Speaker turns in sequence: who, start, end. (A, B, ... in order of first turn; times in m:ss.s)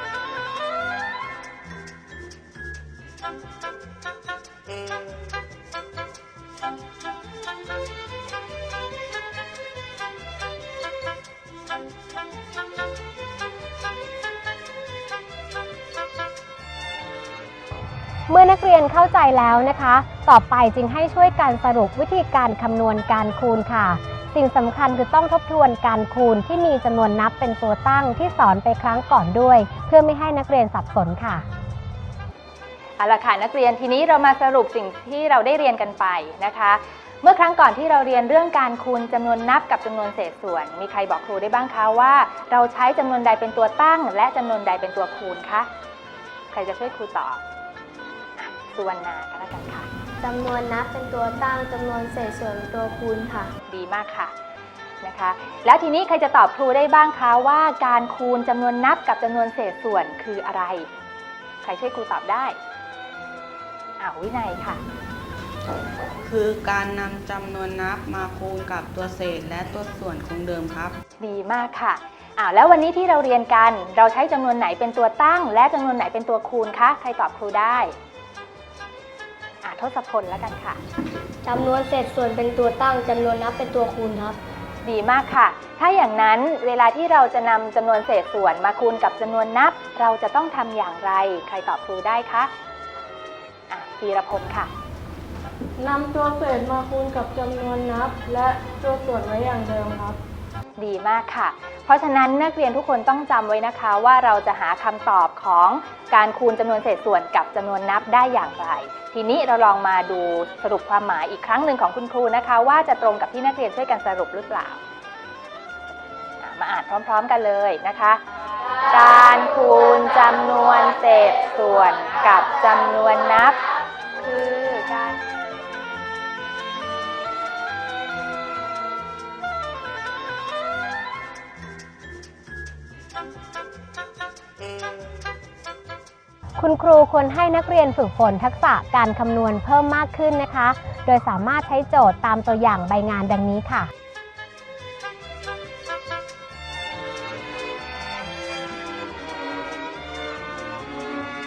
0:18.3-0:31.5 A
0:33.0-0:45.7 B
0:46.5-0:47.4 B
0:48.4-0:49.9 B
0:50.2-0:53.5 C
0:53.7-0:54.3 B
0:55.0-1:00.9 B
1:01.6-1:02.6 B
1:04.0-1:04.8 B
1:06.2-1:11.0 D
1:11.2-1:17.9 B
1:19.6-1:20.8 B
1:21.4-1:24.4 C
1:24.8-1:32.5 B
1:33.7-1:34.7 B
1:35.8-1:40.2 C
1:40.8-1:54.8 B
1:56.4-1:58.2 B
1:58.9-2:05.2 B
2:16.6-2:23.9 A